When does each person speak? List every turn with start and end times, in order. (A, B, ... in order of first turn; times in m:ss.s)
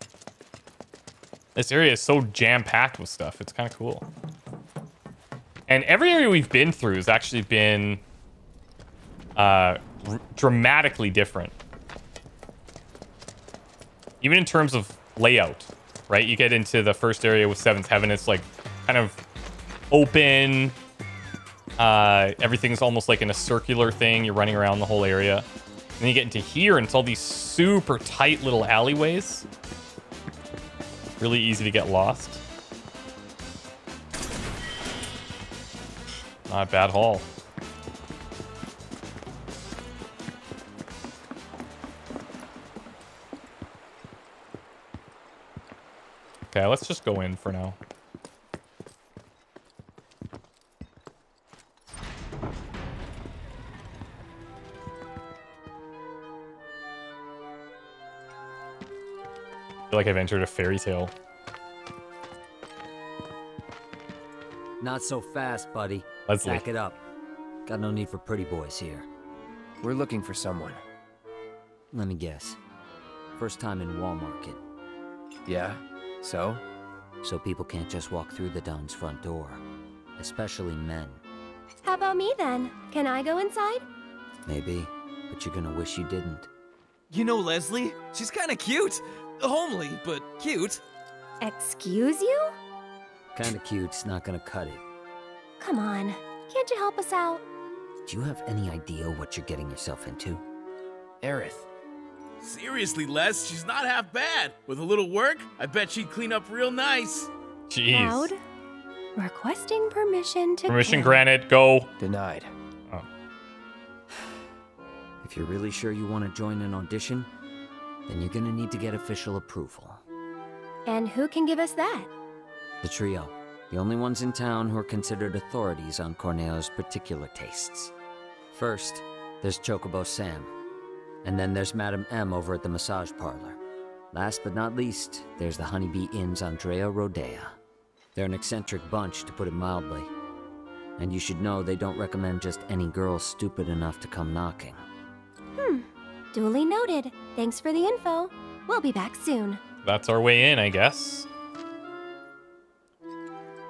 0:01.6-0:04.0 A
0:05.7-0:08.0 A
0:09.4-0:11.5 A
0:14.2-0:19.2 A
0:19.9-0:20.8 A
0:21.8-0:25.5 A
0:26.0-0:29.4 A
0:31.2-0:32.4 A
0:36.5-0:37.2 A
0:46.5-0:47.8 A
0:59.9-1:01.1 A
1:04.8-1:07.0 B
1:06.2-1:06.6 A
1:07.6-1:09.0 B
1:09.8-1:10.8 C
1:11.9-1:12.6 B
1:13.4-1:14.6 B
1:15.5-1:16.6 C
1:17.2-1:19.6 B
1:20.2-1:21.2 B
1:21.8-1:23.8 D
1:24.4-1:26.5 B
1:27.1-1:30.8 E
1:31.4-1:32.5 D
1:33.3-1:34.8 B
1:35.6-1:37.4 D
1:38.0-1:40.4 B
1:41.2-1:41.6 C
1:42.4-1:47.3 F
1:47.7-1:48.3 A
1:47.9-1:48.4 D
1:49.2-1:51.2 D
1:50.7-1:51.9 A
1:52.0-1:52.5 C
1:55.2-1:57.3 B
1:58.1-2:00.0 B
2:00.9-2:02.1 D
2:02.8-2:07.9 B
2:08.5-2:10.5 B
2:11.2-2:13.6 B
2:14.1-2:17.6 B
2:18.1-2:20.1 B
2:21.0-2:24.8 B
2:25.6-2:29.6 D
2:29.8-2:31.3 A